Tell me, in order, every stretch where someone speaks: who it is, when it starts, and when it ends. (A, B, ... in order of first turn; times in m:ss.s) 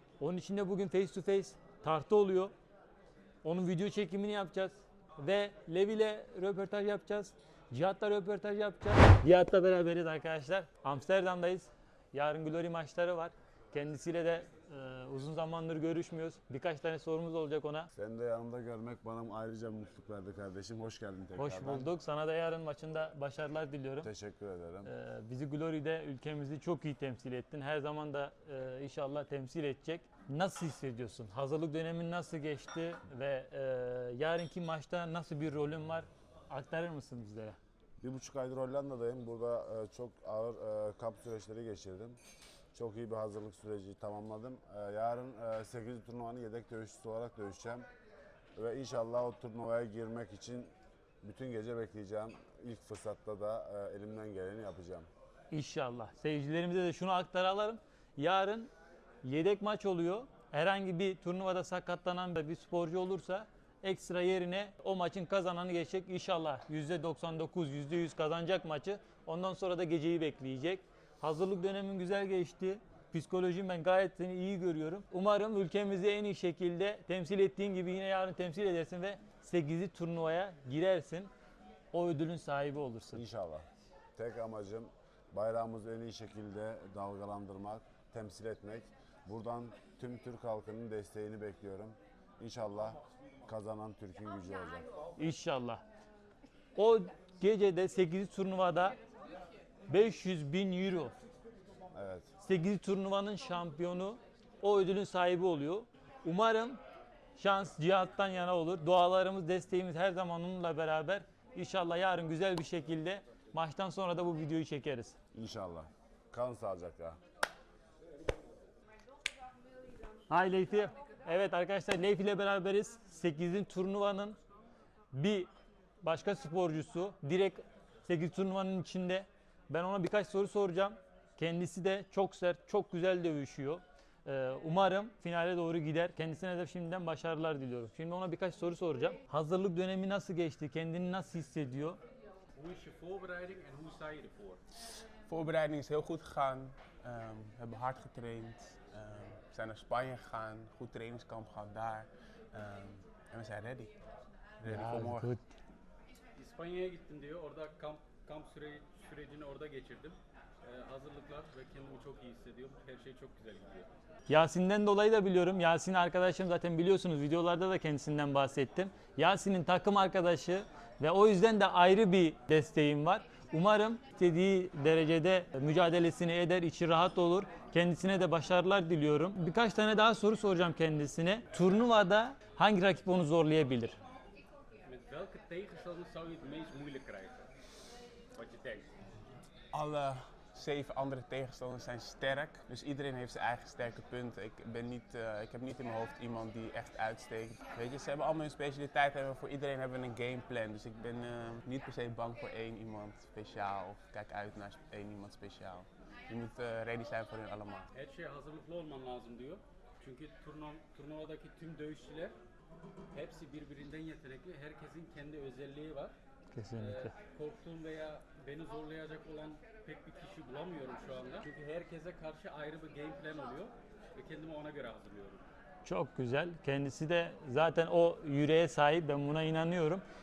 0:00.2-0:02.5 A
0:03.4-0:17.9 A
0:17.9-0:21.9 B
0:21.4-0:24.1 A
0:24.0-0:24.9 B
0:24.8-0:37.6 A
0:38.0-0:42.2 B
0:42.7-0:47.8 B
0:48.6-0:50.7 B
0:51.2-0:55.1 B
0:55.5-0:58.7 A
0:59.2-1:21.3 A
1:21.9-1:23.2 A
1:23.1-1:34.9 B
1:35.2-1:35.8 A
1:36.8-1:39.0 A
1:39.9-1:41.1 A
1:41.9-1:42.3 B
1:42.4-1:46.8 A
1:47.4-1:55.2 A
1:55.3-1:57.2 B
2:00.3-2:04.4 A
2:05.1-2:05.5 A
2:06.0-2:22.0 A
2:22.6-2:24.6 C
2:25.3-2:33.9 D
2:34.6-2:35.3 D
2:34.6-2:35.4 A
2:36.4-2:43.9 C
2:44.3-3:04.0 A
3:04.9-3:07.4 C
3:08.3-3:08.9 C
3:09.7-3:27.9 D
3:27.9-3:32.3 C
3:33.1-3:36.1 C
3:36.5-3:37.1 A
3:36.8-3:45.4 C
3:45.8-3:50.0 A